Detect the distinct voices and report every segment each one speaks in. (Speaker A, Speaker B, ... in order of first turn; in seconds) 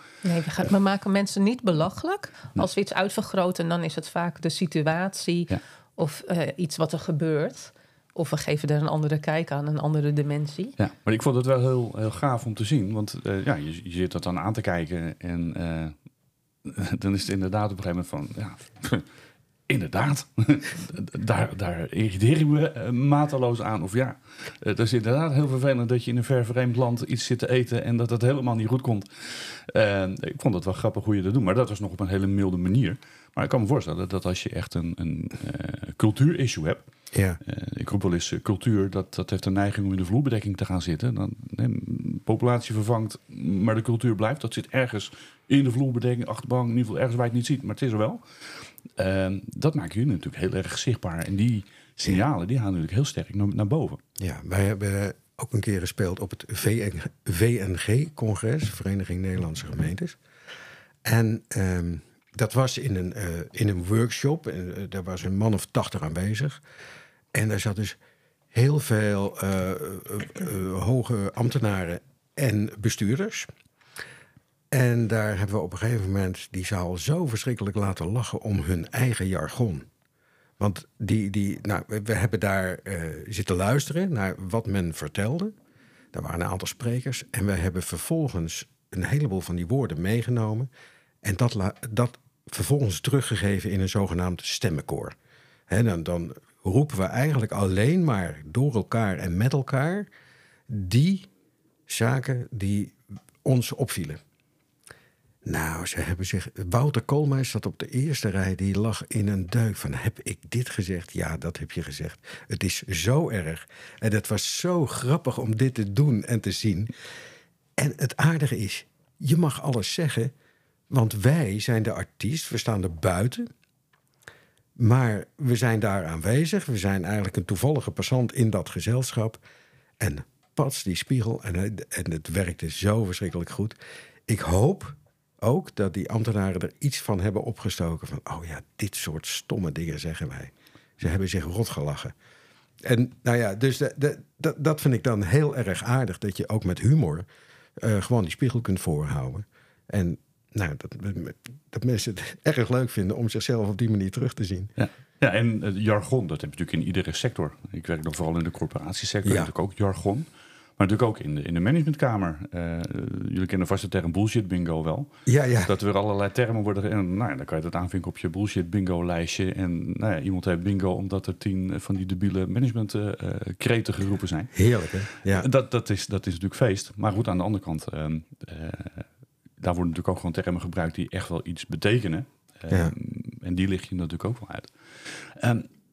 Speaker A: 0.2-10.8
Speaker B: 10.8-15.9, 16.6-19.1, 19.7-36.9, 37.4-54.0, 154.8-160.3, 160.8-165.1, 165.7-174.6, 175.2-179.1, 179.6-185.7
Speaker C: 37.1-37.4, 54.2-60.2, 61.0-66.6, 67.3-68.0, 68.5-73.5, 74.7-79.9, 80.6-85.5, 86.1-90.7, 91.2-95.2, 95.7-100.1, 100.7-101.3, 101.9-104.2, 105.5-116.9, 117.8-120.3, 120.9-123.5, 124.8-129.4, 130.0-142.1, 142.8-147.3, 147.8-154.7, 159.2-159.5, 165.3-165.7, 174.5-175.5, 182.7-182.9